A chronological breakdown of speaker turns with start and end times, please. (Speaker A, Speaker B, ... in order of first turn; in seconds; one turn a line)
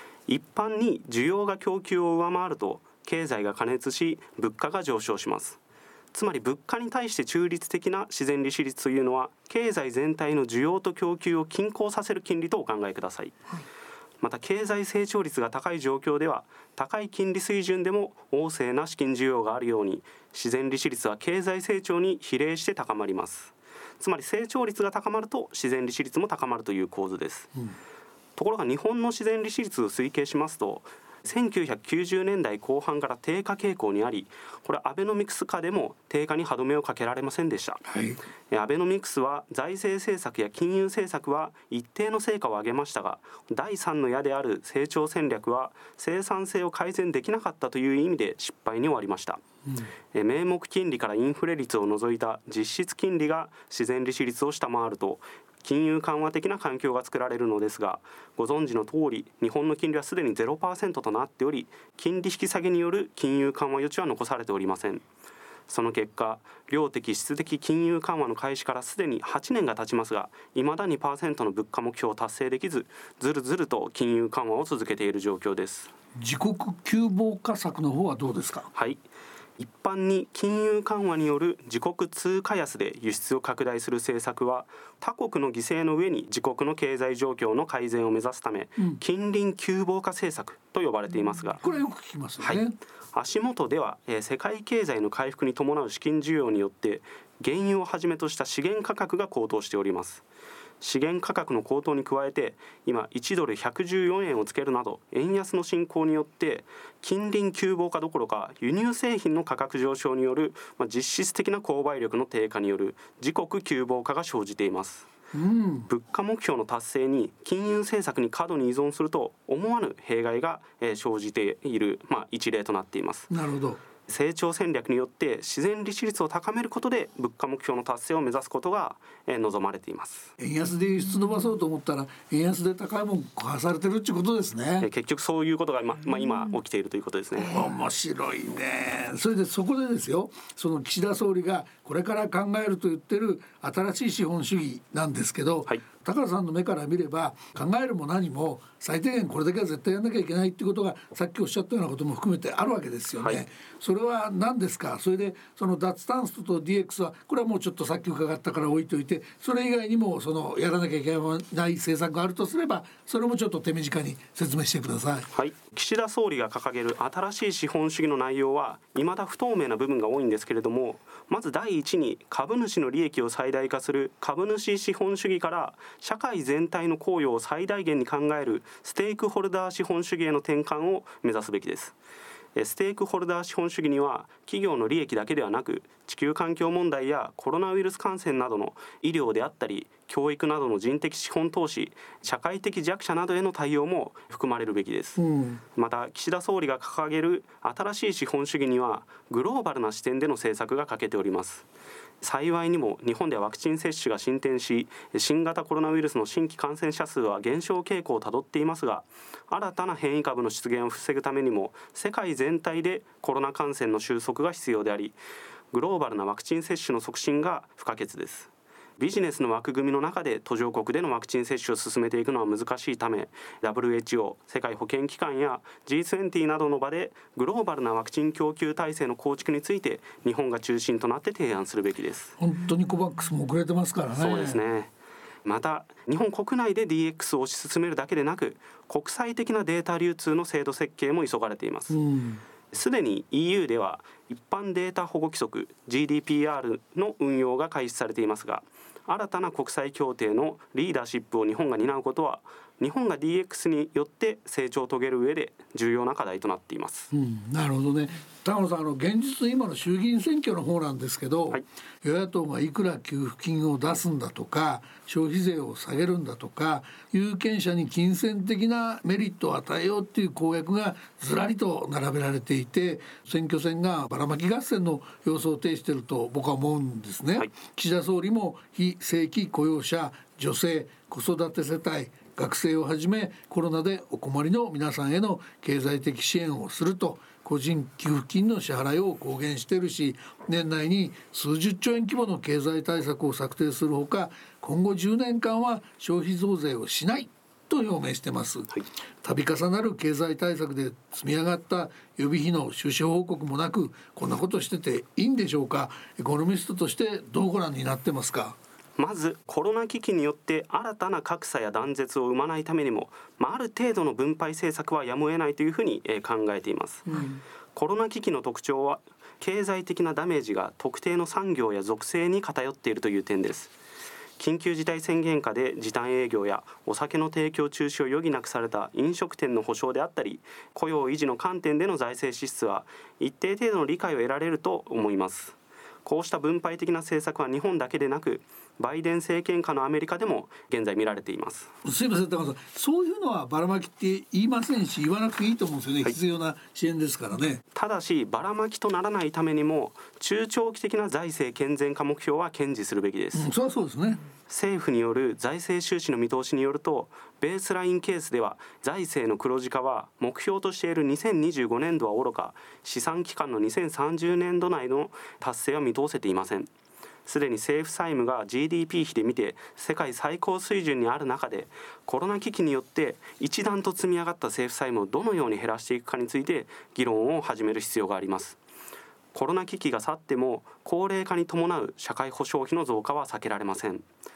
Speaker A: 0.3-5.6
Speaker A: 6.1-13.6
Speaker A: 14.2-27.5
Speaker A: 28.4-37.8
Speaker B: 37.9-38.2
Speaker A: 38.5-49.4
Speaker A: 50.1-65.0
Speaker A: 65.7-75.9
Speaker B: 76.2-78.7
Speaker A: 78.7-79.0
Speaker A: 79.6-91.6
Speaker B: 91.6-92.7
Speaker A: 92.4-100.2
Speaker A: 100.8-115.1
Speaker B: 115.3-115.9
Speaker A: 115.9-123.3
Speaker B: 123.3-123.8
Speaker A: 124.1-130.3
Speaker B: 130.4-134.9
Speaker A: 134.8-137.6
Speaker B: 137.4-165.3
Speaker A: 165.3-181.9
Speaker A: 182.6-195.2
Speaker B: 195.2-195.6
Speaker A: 195.8-201.7
Speaker A: 202.2-215.2
Speaker A: 215.7-232.3
Speaker B: 232.4-234.6
Speaker A: 234.2-234.9
Speaker A: 235.4-242.0
Speaker B: 241.9-242.4
Speaker A: 242.7-257.1
Speaker B: 257.1-308.6
Speaker A: 309.0-323.7
Speaker B: 317.1-317.4
Speaker A: 324.4-341.7
Speaker B: 341.8-347.6
Speaker A: 347.7-353.5
Speaker B: 353.3-354.2
Speaker A: 354.5-366.7
Speaker A: 367.2-378.6
Speaker A: 379.3-384.0